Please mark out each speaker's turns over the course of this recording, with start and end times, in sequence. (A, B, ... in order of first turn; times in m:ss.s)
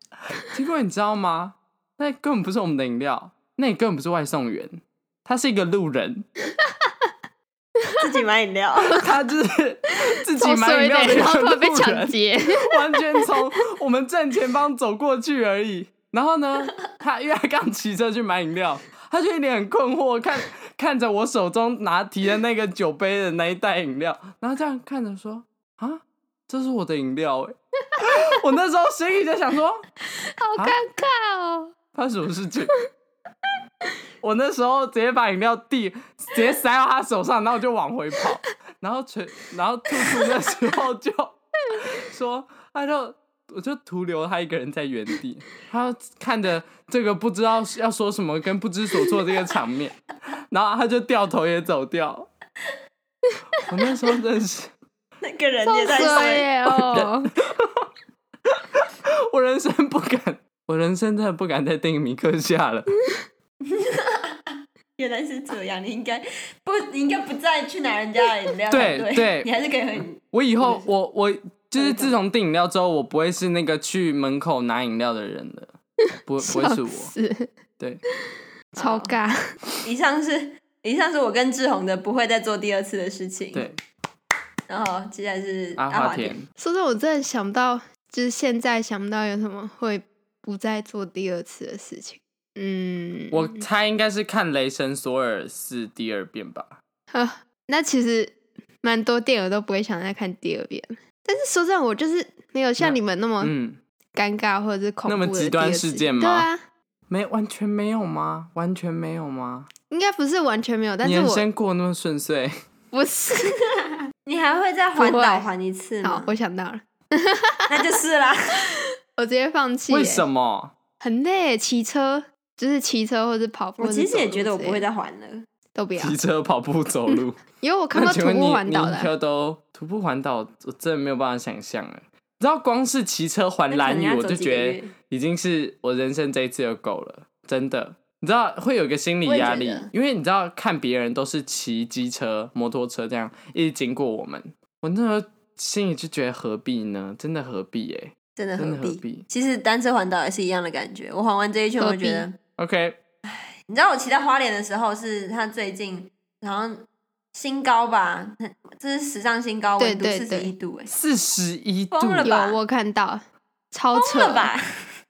0:00.3-0:06.3 A
0:08.0-0:09.0 B
0:08.9-0:29.8 A
0:10.4-0:13.3 C
0:30.3-0:31.7 C
0:31.9-0:32.7 A
0:34.2-0:50.0 A
0:50.5-0:52.3 A
0:53.7-0:54.7 A
0:55.2-0:56.5 B
0:55.7-0:57.3 C
0:56.7-0:57.9 A
0:58.4-1:02.9 A
1:03.7-1:10.9 B
1:08.7-1:09.5 A
1:10.1-1:15.7 A
1:11.8-1:12.2 B
1:16.3-1:17.1 A
1:16.4-1:17.5 C
1:18.7-1:19.1 B
1:18.7-1:19.4 C
1:19.8-1:23.7 B
1:24.7-1:26.4 B
1:25.8-1:26.5 A
1:26.6-1:33.6 C
1:33.3-1:36.8 A
1:37.1-1:43.5 C
1:42.8-1:43.8 A
1:44.1-1:46.6 C
1:45.0-1:46.5 A
1:47.1-1:49.7 A
1:49.9-1:51.4 C
1:51.0-1:52.5 A
1:52.9-1:53.7 C
1:54.2-1:56.3 B
1:55.0-1:55.5 C
1:56.0-1:57.9 C
1:57.7-1:58.7 B
1:58.8-2:00.2 C
1:59.9-2:00.7 A
2:01.0-2:04.8 C
2:03.8-2:05.4 B
2:05.7-2:06.2 C
2:06.0-2:07.4 A
2:07.1-2:09.1 C
2:07.9-2:29.2 A
2:13.7-2:14.9 B
2:19.2-2:19.9 B
2:28.4-2:32.4 B
2:31.8-2:32.3 C
2:32.6-2:33.0 A
2:33.3-2:40.9 B
2:39.8-2:40.5 C
2:40.9-2:42.3 A
2:41.9-2:42.6 B
2:42.2-2:44.5 C
2:43.9-2:44.6 B